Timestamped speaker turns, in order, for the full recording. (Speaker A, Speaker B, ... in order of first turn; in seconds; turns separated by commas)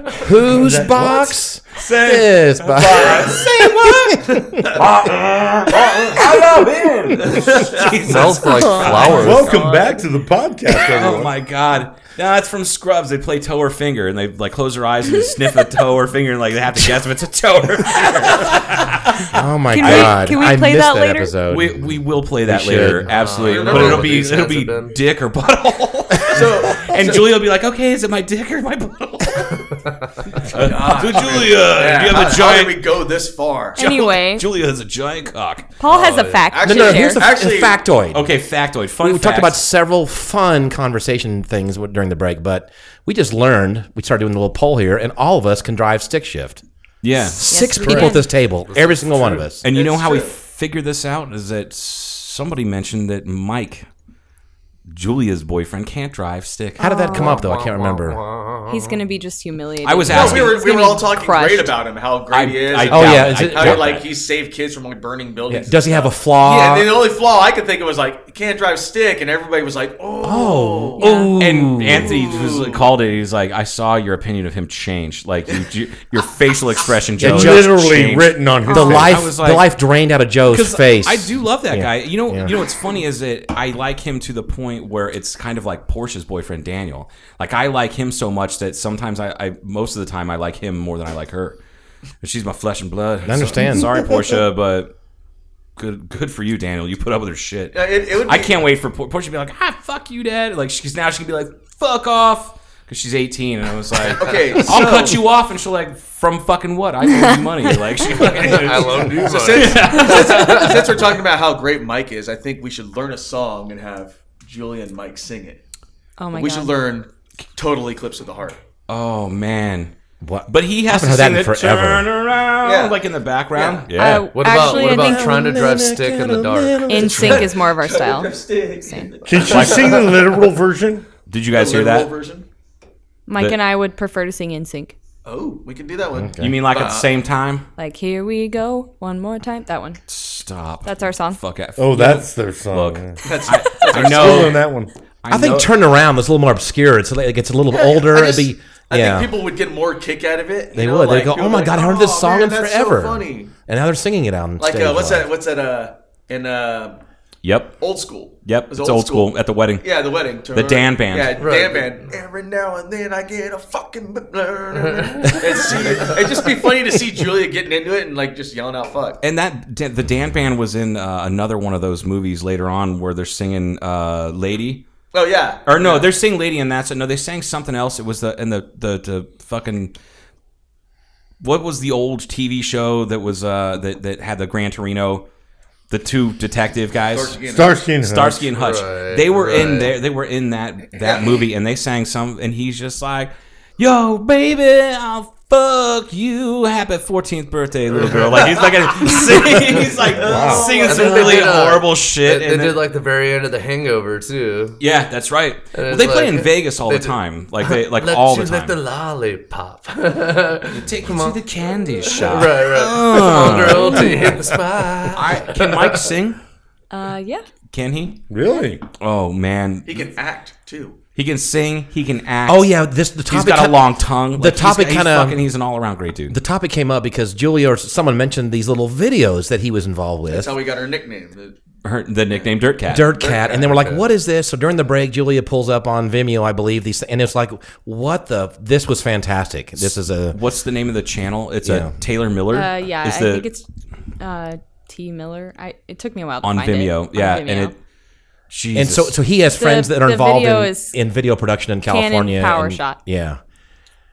Speaker A: 0.2-4.8, Speaker B: 0.4-1.4, Speaker C: 1.8-9.4, Speaker B: 4.8-7.6, Speaker D: 8.0-9.5, Speaker E: 8.4-10.0, Speaker B: 9.2-11.3, Speaker C: 10.8-20.3, Speaker A: 19.2-23.1, Speaker E: 19.7-21.4, Speaker C: 21.5-32.9, Speaker D: 23.1-25.0, Speaker F: 23.4-24.3, Speaker F: 26.3-27.3, Speaker F: 30.5-33.8, Speaker E: 33.8-34.5, Speaker C: 33.8-35.7, Speaker E: 35.8-37.3, Speaker D: 35.9-36.5, Speaker F: 36.5-37.8, Speaker A: 36.6-38.3, Speaker C: 38.1-39.6, Speaker A: 39.0-46.6, Speaker C: 47.0-48.1, Speaker A: 47.2-49.7, Speaker E: 47.5-48.3, Speaker D: 48.7-49.4, Speaker C: 49.6-53.9, Speaker F: 49.7-50.3, Speaker C: 54.9-56.8, Speaker E: 56.8-57.4, Speaker A: 56.8-58.2, Speaker D: 57.1-59.0, Speaker E: 58.7-61.8, Speaker C: 59.8-60.6, Speaker F: 60.1-71.2, Speaker C: 62.3-64.0, Speaker A: 62.9-64.0, Speaker A: 65.5-67.1, Speaker A: 70.2-72.3, Speaker E: 71.0-71.4, Speaker C: 71.4-79.7, Speaker F: 72.0-72.9, Speaker A: 77.2-77.8, Speaker B: 77.2-79.3, Speaker E: 78.7-79.1, Speaker A: 78.7-82.5, Speaker C: 80.5-91.6, Speaker C: 92.2-94.9, Speaker A: 93.2-94.1, Speaker C: 95.8-110.8, Speaker F: 97.7-98.6, Speaker F: 104.0-105.2, Speaker E: 107.0-107.8, Speaker D: 108.2-110.7, Speaker F: 109.1-115.6, Speaker E: 116.2-116.7, Speaker F: 116.3-118.6, Speaker C: 118.9-119.9, Speaker A: 120.2-122.1, Speaker C: 120.5-124.3, Speaker F: 122.6-123.9, Speaker E: 124.0-125.5, Speaker D: 124.3-127.4, Speaker A: 124.5-127.5, Speaker E: 126.9-129.1, Speaker F: 127.1-130.4, Speaker B: 129.2-131.1, Speaker C: 129.5-129.9, Speaker C: 131.3-132.1, Speaker F: 131.5-132.5, Speaker E: 133.3-134.9, Speaker F: 135.2-137.1, Speaker A: 136.2-136.5, Speaker C: 136.4-137.7, Speaker E: 137.8-140.0, Speaker C: 140.1-144.6, Speaker E: 140.8-141.4, Speaker B: 141.8-143.2, Speaker F: 143.2-144.6, Speaker B: 144.1-144.9, Speaker C: 145.2-145.7, Speaker A: 145.3-149.4, Speaker F: 147.7-153.5, Speaker A: 150.7-155.3, Speaker F: 154.6-157.0, Speaker C: 157.4-157.9, Speaker F: 157.8-169.2, Speaker C: 158.4-161.4, Speaker D: 161.4-161.9, Speaker D: 164.8-165.4, Speaker C: 169.2-174.9, Speaker F: 175.1-176.1, Speaker C: 175.7-179.9, Speaker C: 181.4-185.3, Speaker C: 185.9-187.4, Speaker F: 187.1-187.9, Speaker B: 187.5-188.5, Speaker C: 188.0-202.8, Speaker D: 188.6-189.9, Speaker F: 191.0-191.4, Speaker F: 200.2-201.4, Speaker B: 200.2-200.7, Speaker D: 200.6-204.8, Speaker C: 204.8-208.8, Speaker D: 205.7-211.4, Speaker C: 210.7-214.3, Speaker D: 212.0-216.1, Speaker C: 215.1-216.4, Speaker E: 216.9-217.4, Speaker C: 217.7-218.2, Speaker B: 218.3-218.8, Speaker C: 219.0-220.1, Speaker F: 219.9-221.0, Speaker C: 221.2-222.8, Speaker A: 222.5-225.5, Speaker C: 223.3-226.4, Speaker A: 226.3-230.6, Speaker F: 230.3-231.6, Speaker C: 231.8-233.2, Speaker A: 232.9-240.4, Speaker F: 233.1-234.0, Speaker C: 239.8-243.5, Speaker A: 241.7-241.9, Speaker E: 242.5-243.7, Speaker E: 244.2-247.7, Speaker C: 246.4-247.8, Speaker C: 248.5-249.2, Speaker A: 248.8-253.4, Speaker E: 249.5-250.9, Speaker E: 251.9-253.0